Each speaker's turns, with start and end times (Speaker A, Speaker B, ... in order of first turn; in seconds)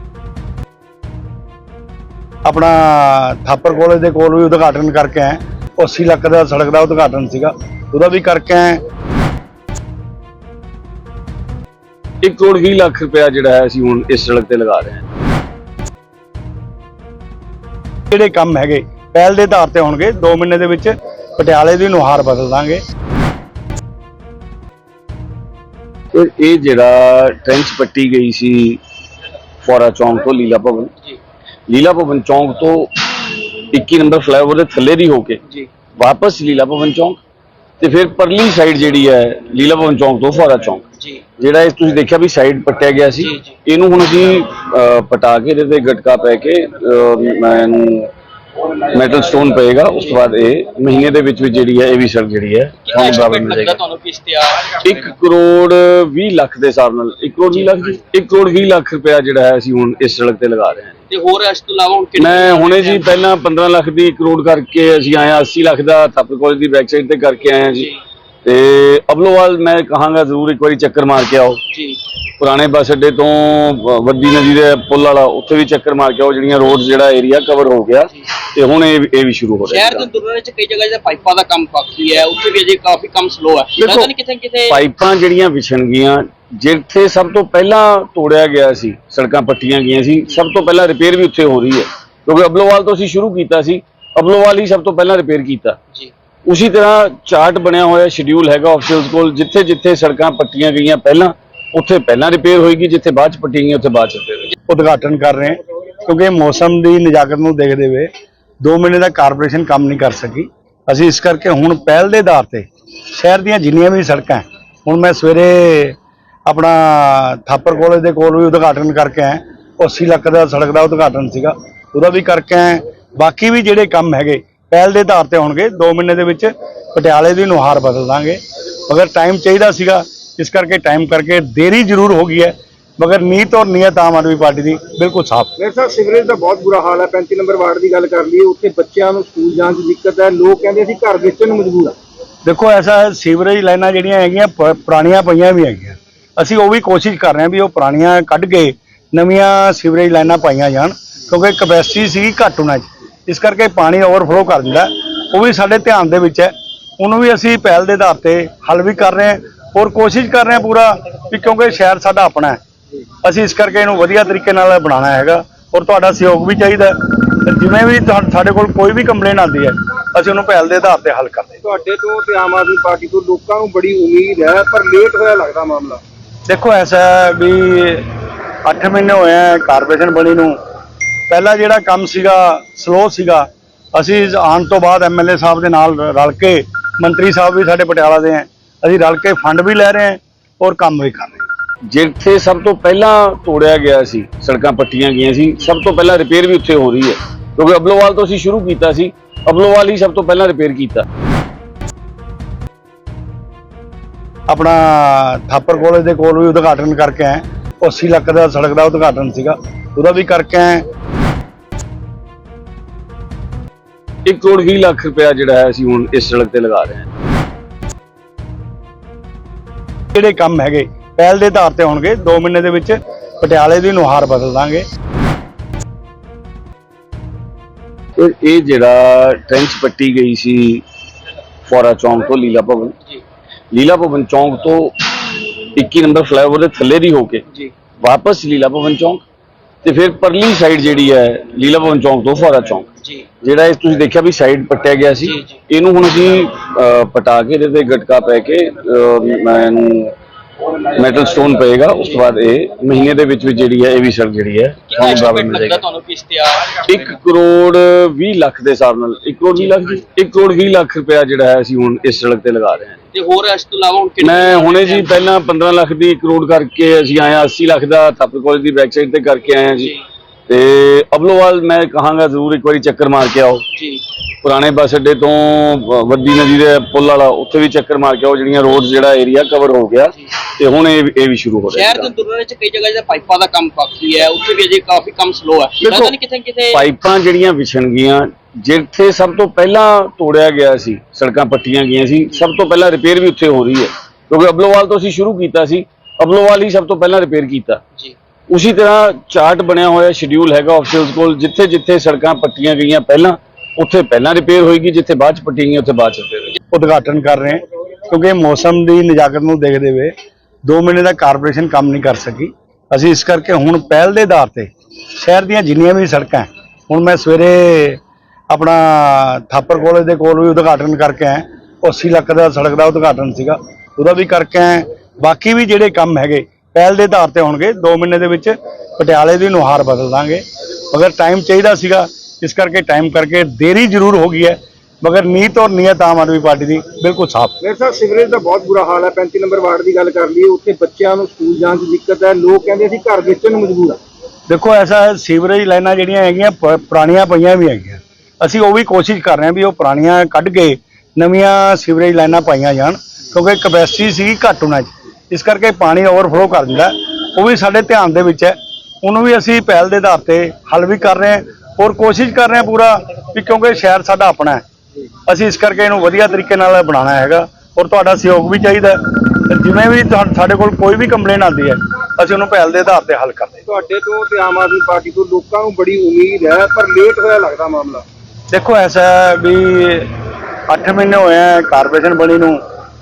Speaker A: 2.5-8.8, 18.1-22.8, 104.7-108.1, 108.6-135.6, 142.5-162.6, 163.2-171.6, 176.5-180.6, 181.3-191.5, 204.5-210.8, 220.1-224.8, 306.7-310.1, 310.7-337.6, 344.5-364.6, 365.3-373.6, 378.5-382.6
Speaker B: 12.2-15.1, 26.1-28.8, 29.6-30.9, 31.7-35.4, 36.0-37.2, 37.8-40.9, 41.4-48.1, 48.6-53.8, 54.7-61.0, 62.2-67.9, 68.5-71.6, 72.4-80.1, 83.8-84.1, 84.7-95.8, 96.5-104.5, 191.9-201.1, 214.2-217.1, 228.2-230.8, 231.6-233.0, 233.7-237.5, 238.0-239.2, 239.8-242.9, 243.4-250.1, 250.8-255.8, 256.7-263.0, 264.2-269.9, 270.5-273.6, 274.4-282.1, 285.8-286.1, 286.7-297.8, 298.5-306.6
Speaker C: 43.2-43.5, 52.9-54.8, 61.1-63.1, 67.7-68.0, 71.7-72.0, 79.7-84.8, 245.2-245.6, 254.9-256.8, 263.1-265.1, 273.7-274.0, 281.7-286.8
Speaker D: 135.6-142.0, 171.6-176.0, 337.6-344.0, 373.7-378.0